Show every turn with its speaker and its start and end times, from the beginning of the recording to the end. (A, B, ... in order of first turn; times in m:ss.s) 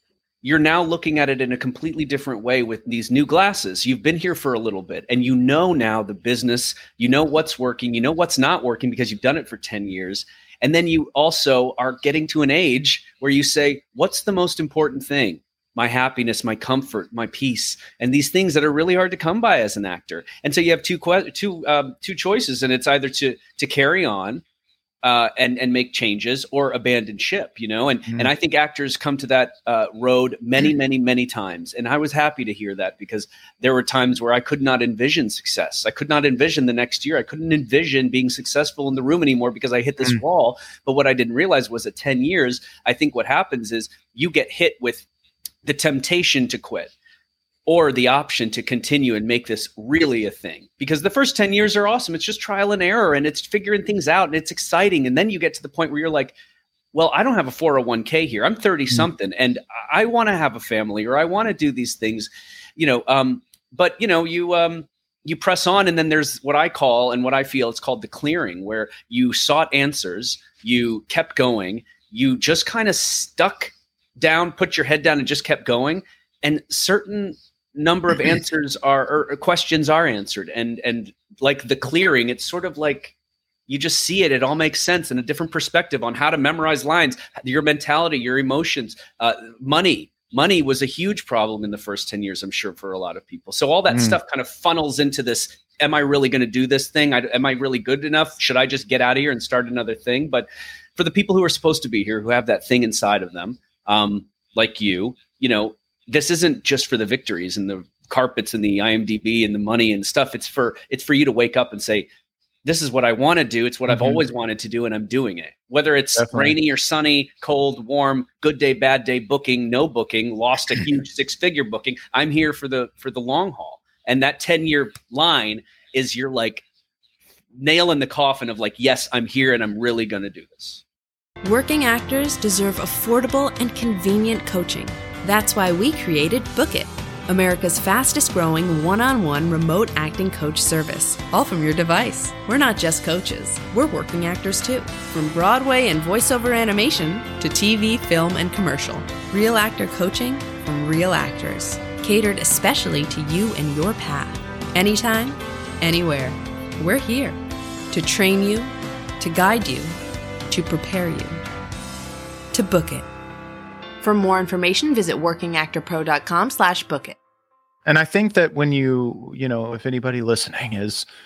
0:00.4-0:24.4 A
0:25.0-0:45.0 A
0:45.6-0:46.9 A
0:47.6-0:56.3 A
0:56.9-1:23.1 A
1:23.7-1:52.1 A
1:33.9-1:34.2 B
1:52.6-2:06.6 A
1:53.9-1:54.2 B
1:56.2-1:56.6 B
2:07.5-2:10.8 A
2:11.4-2:37.4 C
2:37.9-2:39.9 C
2:40.5-2:41.4 C
2:42.5-2:43.0 C
2:44.0-2:47.2 C
2:47.8-2:51.0 B